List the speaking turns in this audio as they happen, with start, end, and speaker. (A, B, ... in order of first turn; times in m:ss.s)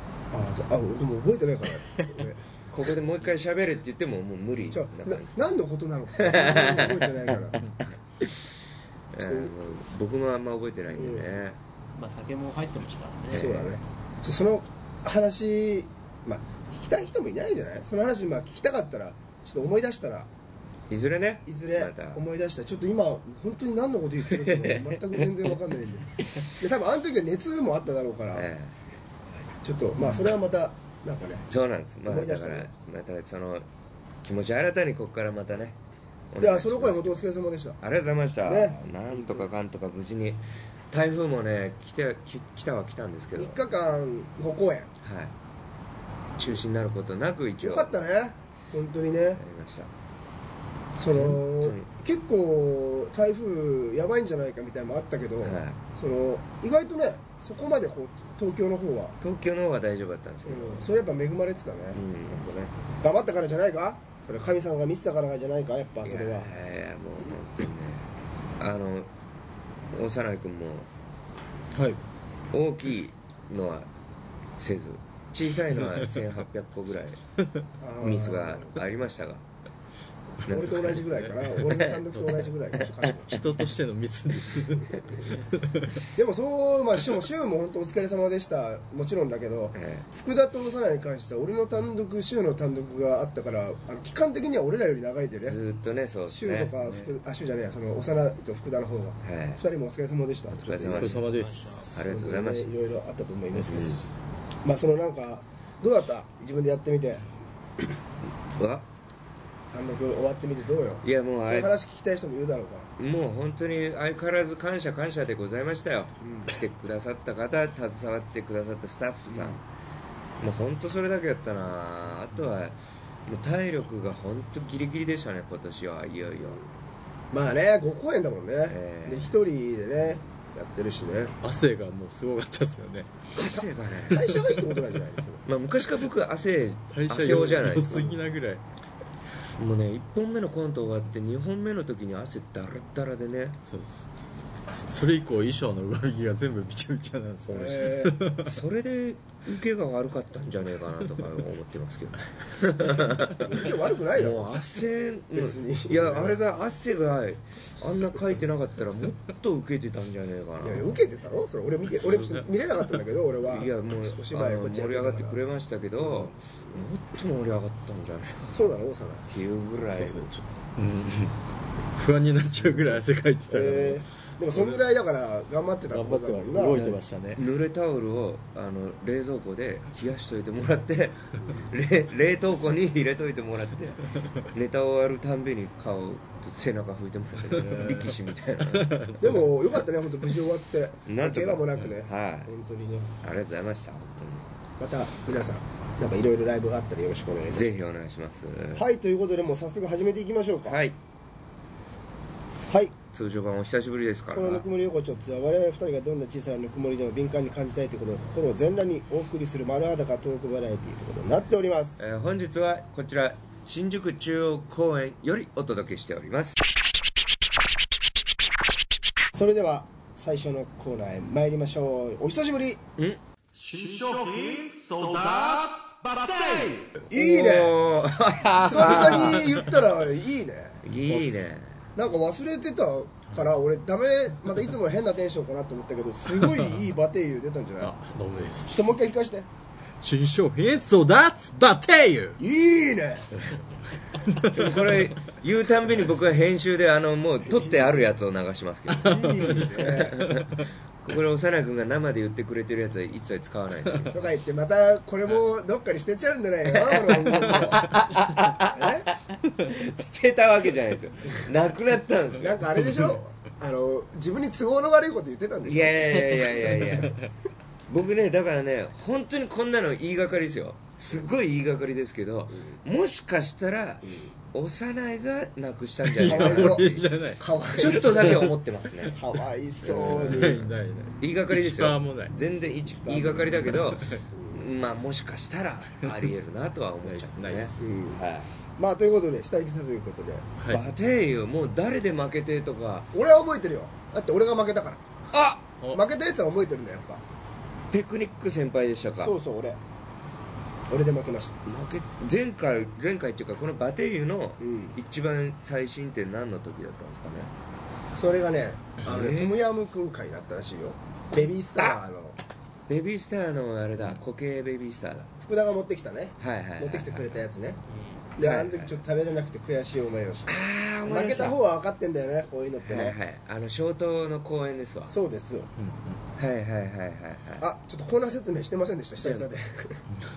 0:00.3-0:02.4 A
0:02.7-0:05.4 B
0:04.7-0:07.6 A
0:06.1-0:08.4 B
0:09.1-0:11.6 B
0:09.2-0:09.5 A
0:10.9-0:11.3 A
0:12.0-0:13.4 C
0:13.3-0:13.8 B
0:13.3-0:20.3 A
0:20.9-0:22.2 B
0:21.5-0:28.5 A
0:24.3-0:25.0 B
0:28.3-0:28.7 B
0:29.6-0:31.5 A
0:31.5-0:33.6 B
0:32.1-0:32.7 A
0:34.2-0:35.8 B
0:36.3-0:37.3 B
0:36.4-0:37.8 A
0:37.8-0:43.6 B
0:38.4-0:39.5 A
0:43.4-0:44.9 A
0:45.0-0:45.3 B
0:46.4-0:47.9 B
0:47.6-0:49.4 A
0:49.4-0:49.9 B
0:51.0-0:59.2 A
0:51.1-0:51.9 B
0:55.4-0:55.8 B
0:59.2-1:00.9 B
1:00.5-1:06.5 A
1:02.0-1:02.5 B
1:06.1-1:08.1 B
1:08.6-1:09.1 B
1:09.9-1:10.9 B
1:11.7-1:12.0 D
1:12.5-1:13.9 B
1:14.6-1:17.2 B
1:17.8-1:18.8 A
1:18.0-1:19.4 B
1:20.5-1:21.3 B
1:20.5-1:23.6 A
1:21.5-1:22.5 D
1:23.3-1:26.0 D
1:26.1-1:35.6 A
1:29.8-1:30.0 B
1:35.4-1:37.2 B
1:36.3-1:41.1 A
1:39.2-1:39.6 B
1:40.6-1:41.2 B
1:40.9-1:42.0 D
1:41.2-1:41.9 C
1:41.9-1:42.7 B
1:42.0-1:44.0 A
1:43.5-1:44.0 D
1:43.7-1:44.0 B
1:44.6-1:47.2 A
1:48.6-1:48.9 B
1:49.7-1:52.9 A
1:51.0-1:51.7 B
1:53.0-1:59.6 B
1:56.2-1:56.5 A
1:59.3-1:59.6 A
2:00.4-2:06.6 B
2:07.3-2:11.4 A
2:08.7-2:09.3 B
2:11.4-2:13.1 D
2:13.4-2:14.3 B
2:13.5-2:15.5 A
2:15.5-2:18.2 B
2:16.9-2:18.6 D
2:19.6-2:23.6 B
2:23.6-2:24.1 D
2:24.7-2:28.6 D
2:27.5-2:28.2 A
2:28.5-2:41.0 B
2:33.4-2:34.5 A
2:35.3-2:36.4 A
2:40.6-2:45.4 A
2:42.0-2:42.4 B
2:43.5-2:48.6 B
2:46.0-2:46.8 A
2:48.5-2:49.3 A
2:49.3-2:50.3 B
2:49.9-2:51.4 D
2:52.0-2:54.0 D
2:53.5-2:56.8 A
2:55.9-2:57.4 D
2:56.8-3:09.4 B
3:07.6-3:08.1 A
3:08.7-3:09.4 D
3:09.2-3:13.1 A
3:11.1-3:12.5 B
3:13.2-3:14.4 B
3:14.8-3:18.0 A
3:17.5-3:18.8 B
3:18.8-3:20.8 A
3:20.7-3:21.0 B
3:22.7-3:23.0 A
3:23.1-3:24.6 B
3:24.3-3:32.0 A
3:32.0-3:36.6 B
3:39.3-3:42.8 A
3:43.6-3:46.9 D
3:47.1-3:47.8 A
3:47.1-3:49.7 B
3:48.6-3:50.9 A
3:50.8-3:51.8 B
3:52.0-3:57.9 A
3:56.3-3:56.9 D
3:57.8-3:59.0 D
3:58.7-3:59.5 A
4:00.0-4:02.4 D
4:02.4-4:03.3 A
4:04.3-4:04.8 D
4:04.5-4:14.2 B
4:09.0-4:10.2 A
4:09.0-4:10.6 D
4:14.1-4:17.9 A
4:16.7-4:22.6 B
4:18.6-4:19.1 A
4:22.4-4:26.3 A
4:25.6-4:27.2 B
4:27.9-4:37.0 B
4:34.0-4:34.3 A
4:36.0-4:37.4 D
4:36.2-4:38.4 A
4:37.8-4:39.2 B
4:38.0-4:38.5 D
4:39.1-4:40.6 A
4:39.8-4:40.7 B
4:39.9-4:42.4 D
4:41.2-4:48.5 B
4:43.0-4:43.5 A
4:43.5-4:44.2 D
4:44.3-4:44.6 A
4:47.0-4:47.9 D
4:47.8-4:48.2 A
4:48.8-4:50.5 A
4:50.7-4:53.1 B
4:53.1-4:55.0 A
4:55.3-4:55.7 B
4:55.9-4:57.2 A
4:57.9-4:59.3 B
4:59.2-4:59.8 A
5:00.9-5:01.6 A
5:01.7-5:07.5 B
5:04.6-5:05.0 A
5:08.2-5:12.4 A
5:09.1-5:09.6 B
5:12.9-5:15.3 B
5:15.4-5:17.8 A
5:16.4-5:17.4 B
5:18.4-5:23.2 A
5:18.4-5:19.0 B
5:20.5-5:21.6 B
5:22.9-5:25.1 B
5:25.0-5:25.7 A
5:25.8-5:26.2 D
5:26.4-5:27.6 B
5:27.6-5:30.0 A